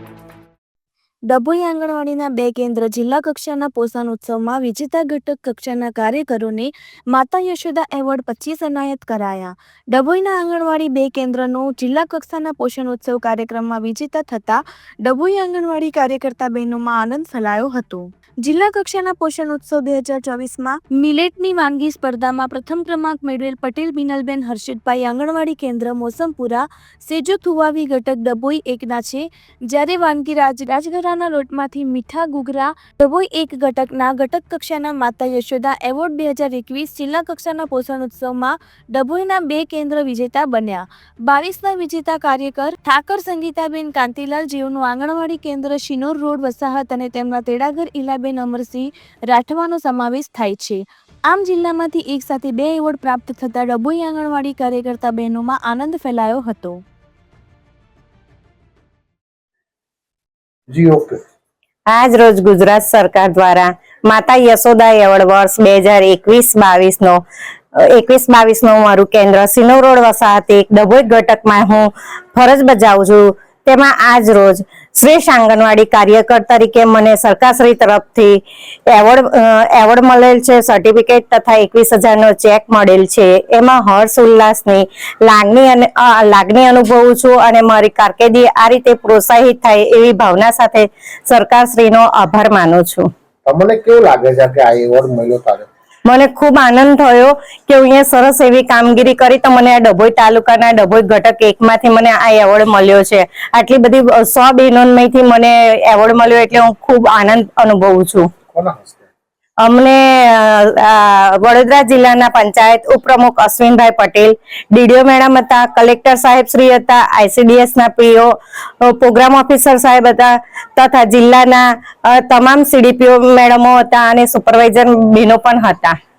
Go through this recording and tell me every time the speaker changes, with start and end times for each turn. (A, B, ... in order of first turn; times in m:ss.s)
0:01.3-0:56.8 A
1:00.7-1:01.2 B
1:01.9-1:07.2 C
1:07.8-1:33.1 C
1:33.4-1:35.7 B
1:36.1-1:48.3 C
1:48.5-1:49.0 B
1:49.6-2:06.0 C